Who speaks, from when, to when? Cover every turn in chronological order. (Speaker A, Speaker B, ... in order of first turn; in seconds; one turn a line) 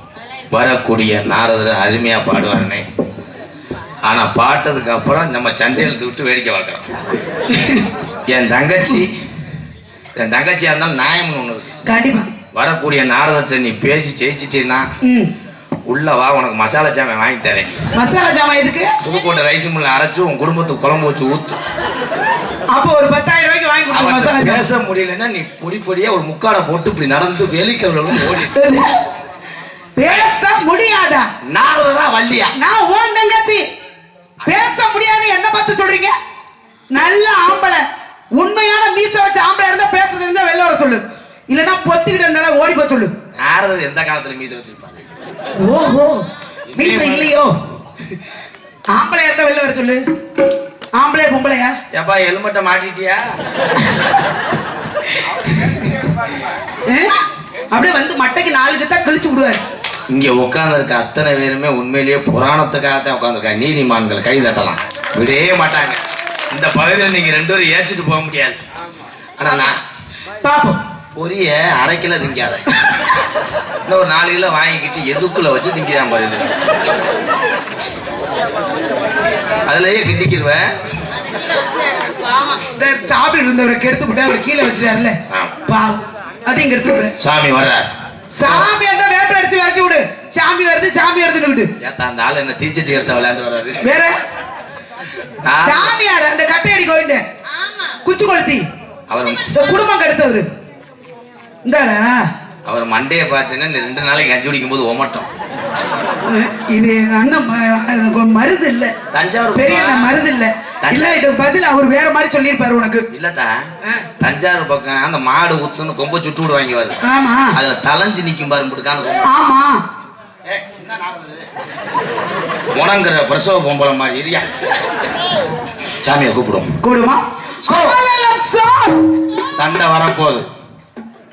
Speaker A: 0.2-0.5
Speaker B: 0.5-2.9
Speaker B: 4.0-6.9
Speaker C: 7.5-7.9
Speaker B: 8.3-9.2
Speaker B: 10.2-11.7
Speaker C: 11.9-12.3
Speaker B: 12.5-14.9
Speaker C: 15.0-15.3
Speaker B: 15.9-17.9
Speaker C: 17.9-19.0
Speaker B: 19.0-21.6
Speaker C: 22.7-24.7
Speaker B: 23.9-28.5
Speaker C: 28.1-28.9
Speaker C: 30.0-31.3
Speaker B: 30.1-30.3
Speaker B: 31.5-32.5
Speaker C: 32.6-33.6
Speaker C: 34.5-36.1
Speaker C: 36.9-37.8
Speaker C: 38.4-43.1
Speaker B: 43.4-45.0
Speaker C: 45.6-47.5
Speaker B: 46.7-47.3
Speaker C: 48.9-50.0
Speaker C: 51.0-51.8
Speaker B: 51.9-53.2
Speaker C: 56.9-57.2
Speaker C: 57.7-59.6
Speaker B: 60.1-66.0
Speaker B: 66.5-68.6
Speaker B: 69.4-69.8
Speaker C: 70.4-70.8
Speaker B: 71.1-72.6
Speaker B: 73.8-76.5
Speaker B: 79.7-80.7
Speaker A: 81.1-82.6
Speaker C: 82.8-87.1
Speaker B: 85.3-85.5
Speaker B: 87.2-87.9
Speaker C: 88.3-91.7
Speaker B: 88.4-88.7
Speaker B: 91.8-93.8
Speaker C: 93.8-94.2
Speaker B: 95.4-95.9
Speaker C: 95.6-97.2
Speaker A: 97.5-98.0
Speaker C: 98.0-98.7
Speaker B: 99.1-99.6
Speaker A: 99.3-99.8
Speaker C: 99.5-100.5
Speaker C: 101.7-102.2
Speaker B: 102.7-105.3
Speaker C: 106.3-108.9
Speaker B: 109.1-110.2
Speaker C: 109.5-113.1
Speaker B: 110.8-111.2
Speaker B: 113.1-113.7
Speaker B: 114.2-117.0
Speaker C: 117.0-117.6
Speaker B: 117.5-119.3
Speaker C: 119.3-119.8
Speaker B: 120.5-121.5
Speaker B: 122.7-124.7
Speaker B: 126.0-126.8
Speaker C: 126.8-129.0
Speaker B: 127.7-128.0
Speaker B: 129.5-130.5